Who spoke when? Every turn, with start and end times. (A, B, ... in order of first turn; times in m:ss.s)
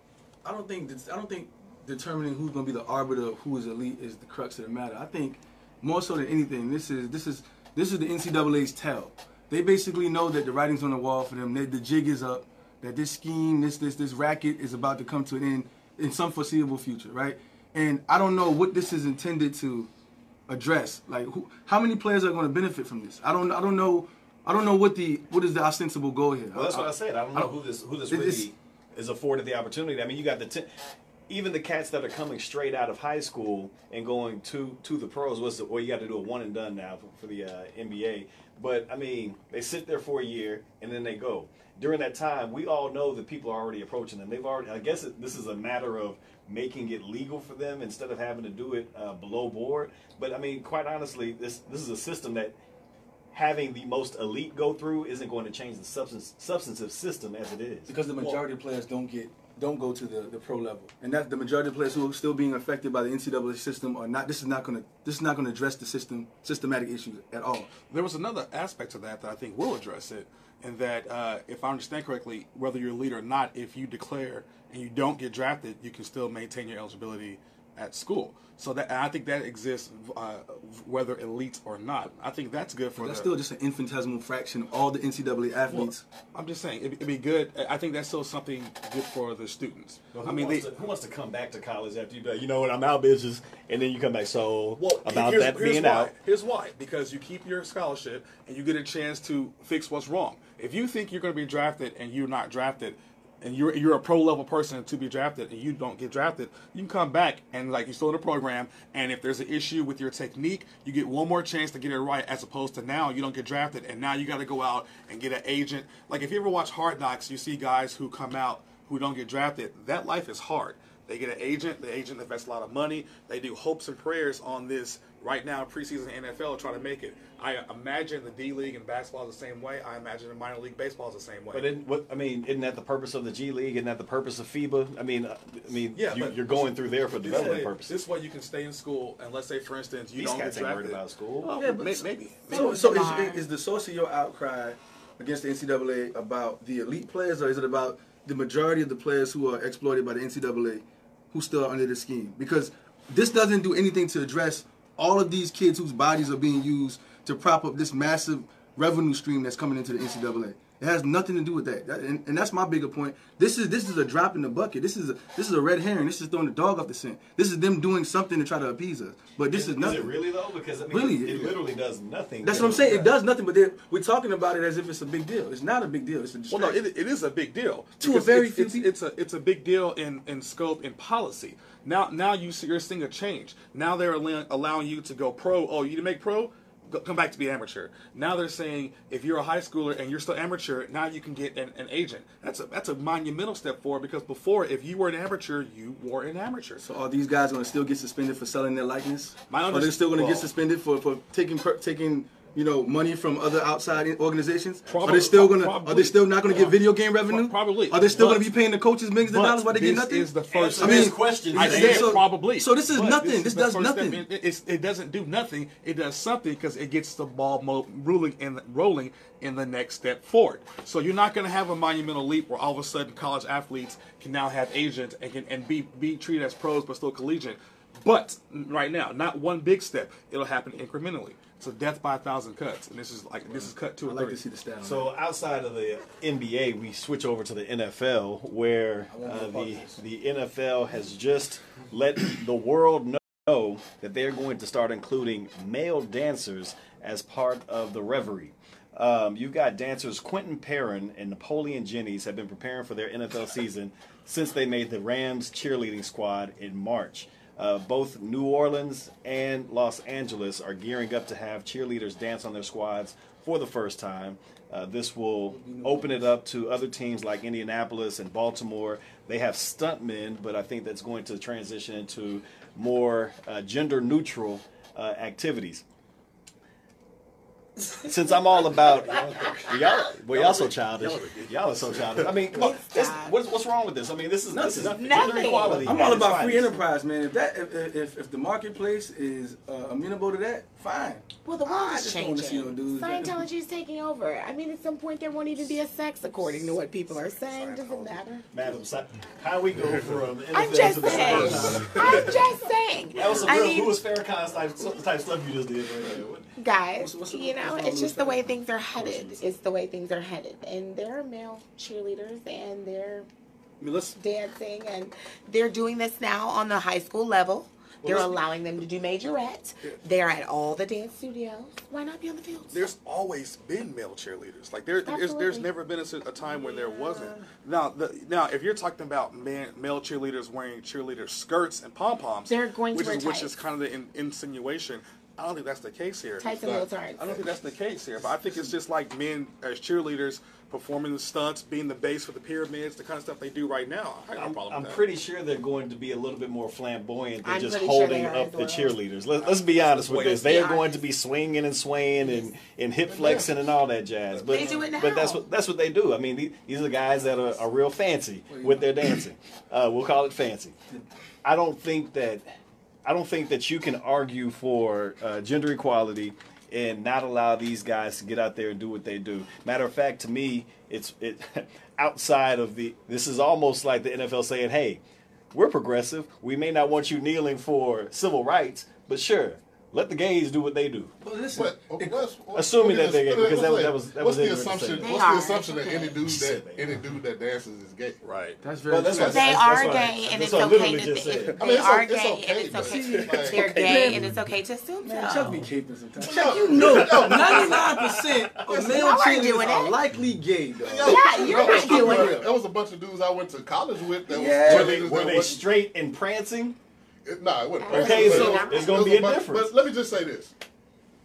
0:00.4-0:19.9 A
0:20.5-0:27.5 A
0:26.5-0:30.7 B
0:28.1-0:28.5 A
0:31.3-0:52.6 B
0:53.3-0:57.9 B
0:57.9-1:07.7 A
1:07.9-1:23.3 C
1:23.0-1:26.0 A
1:25.7-1:30.7 C
1:30.1-1:36.1 B
1:34.8-2:11.7 C
2:11.5-2:17.9 B
2:16.0-2:22.9 C
2:20.2-2:21.5 B
2:21.4-2:50.1 A
2:22.5-2:23.4 D
2:49.5-2:53.1 B
2:50.9-2:51.6 A
2:52.4-2:56.8 A
2:56.5-3:16.8 C
2:58.0-2:58.9 A
3:16.8-3:34.2 A
3:19.5-3:20.5 C
3:24.9-3:28.5 C
3:29.2-3:54.4 C
3:30.5-3:32.2 B
3:53.5-3:55.1 A
3:54.8-4:35.8 B
3:59.1-4:00.0 A
4:25.5-4:26.3 A
4:38.0-4:46.8 B
4:40.3-4:42.6 C
4:42.5-4:43.4 D
4:44.5-4:53.4 A
4:44.8-4:46.1 D
4:45.3-4:45.7 C
4:51.4-4:58.4 D
4:57.1-4:58.7 C
4:58.5-5:02.4 B
5:00.5-5:04.0 D
5:01.2-5:02.4 C
5:01.2-5:01.8 E
5:03.1-5:03.6 C
5:03.2-5:06.5 B
5:06.6-5:13.3 D
5:07.0-5:09.5 A
5:13.8-5:14.2 A
5:14.2-5:22.9 D
5:18.0-5:18.4 B
5:22.7-5:45.0 C
5:25.1-5:25.7 D
5:27.0-5:27.3 D
5:32.5-5:33.6 D
5:36.4-5:37.2 D
5:36.6-5:37.3 E
5:44.3-6:00.8 B
5:47.4-5:49.0 D
5:49.4-5:50.5 C
5:50.2-5:51.0 D
5:52.2-5:52.5 D
5:53.2-5:53.4 A
5:53.2-5:53.5 E
5:54.3-5:54.9 C
5:54.5-5:55.4 D
5:58.5-5:59.2 A
6:01.4-6:02.5 B
6:03.0-6:15.0 B
6:15.5-6:21.1 B
6:21.2-6:22.2 A
6:21.5-6:28.2 E
6:22.5-6:25.2 B
6:25.0-6:26.2 D
6:26.2-6:26.9 B
6:28.2-6:28.6 C
6:28.6-6:30.0 A
6:28.9-6:31.6 B
6:29.1-6:35.6 D
6:31.4-6:33.8 E
6:32.8-6:34.3 A
6:35.0-6:42.5 A
6:36.2-6:37.9 E
6:36.7-6:38.6 B
6:36.8-6:37.7 C
6:38.7-6:39.1 E
6:38.7-6:40.0 D
6:40.8-6:45.6 E
6:41.0-6:42.4 D
6:44.3-6:45.4 A
6:44.6-6:46.8 B
6:47.2-6:50.5 E
6:47.8-6:49.0 D
6:47.9-6:49.7 B